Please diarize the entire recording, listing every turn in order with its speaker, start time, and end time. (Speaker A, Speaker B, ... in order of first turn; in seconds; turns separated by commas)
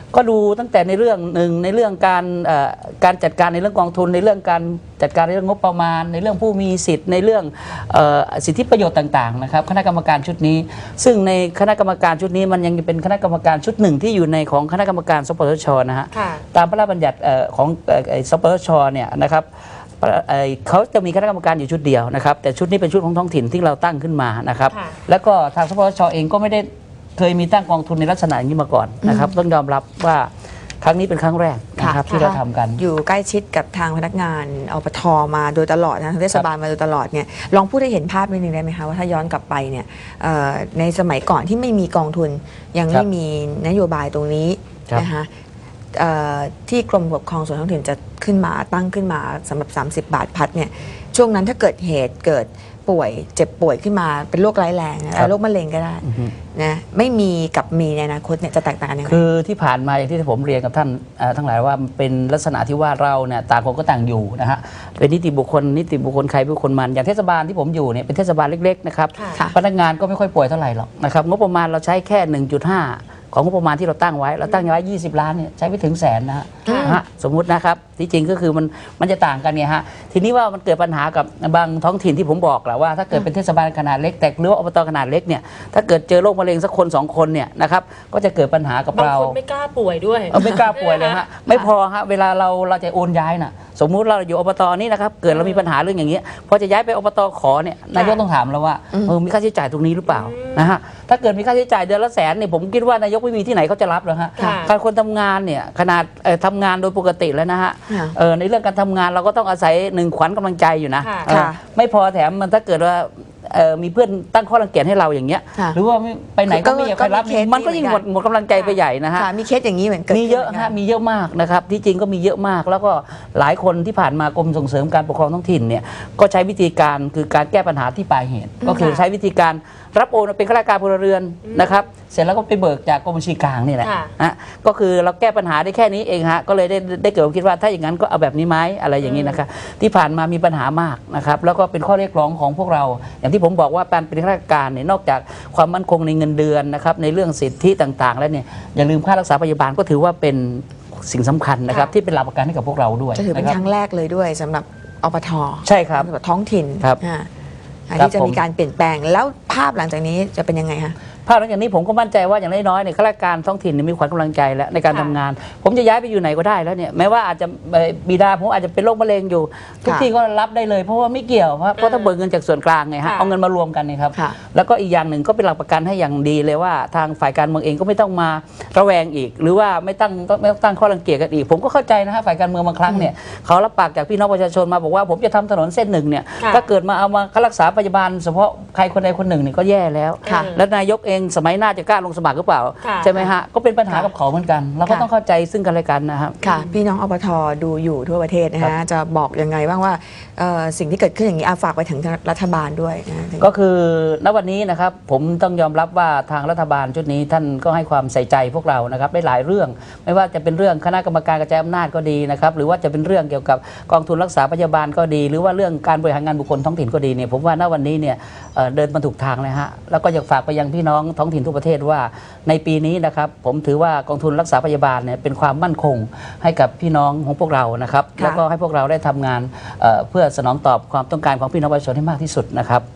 Speaker A: 0.1-19.5, Speaker B: 16.1-16.4, Speaker A: 20.0-30.3, Speaker B: 24.7-25.0, Speaker C: 29.0-29.3, Speaker A: 30.8-32.8, Speaker C: 31.8-45.3, Speaker B: 32.1-32.4, Speaker C: 45.9-59.2, Speaker A: 56.0-56.4, Speaker A: 59.1-89.4, Speaker B: 69.2-69.4, Speaker B: 76.7-77.0, Speaker C: 76.7-77.0, Speaker B: 89.0-91.3, Speaker A: 90.3-119.3, Speaker B: 95.3-95.7, Speaker B: 97.9-98.2, Speaker B: 100.1-100.8, Speaker B: 104.4-104.7, Speaker C: 107.9-108.2, Speaker B: 111.0-111.3, Speaker C: 111.3-111.6, Speaker C: 116.5-118.0, Speaker B: 118.5-118.8, Speaker C: 119.2-120.7, Speaker A: 120.1-153.6, Speaker C: 128.6-128.9, Speaker B: 128.7-129.1, Speaker B: 131.4-131.8, Speaker B: 133.8-134.1, Speaker B: 139.0-139.4, Speaker C: 153.2-157.3, Speaker A: 155.7-156.1, Speaker C: 157.9-160.9, Speaker A: 157.9-158.4, Speaker A: 161.3-196.4, Speaker B: 164.9-165.2, Speaker B: 171.8-172.1, Speaker B: 173.0-173.3, Speaker B: 186.4-186.7, Speaker C: 190.2-190.6, Speaker B: 190.2-190.6, Speaker B: 192.8-193.2, Speaker C: 196.4-203.5, Speaker B: 196.4-196.8, Speaker A: 203.4-232.8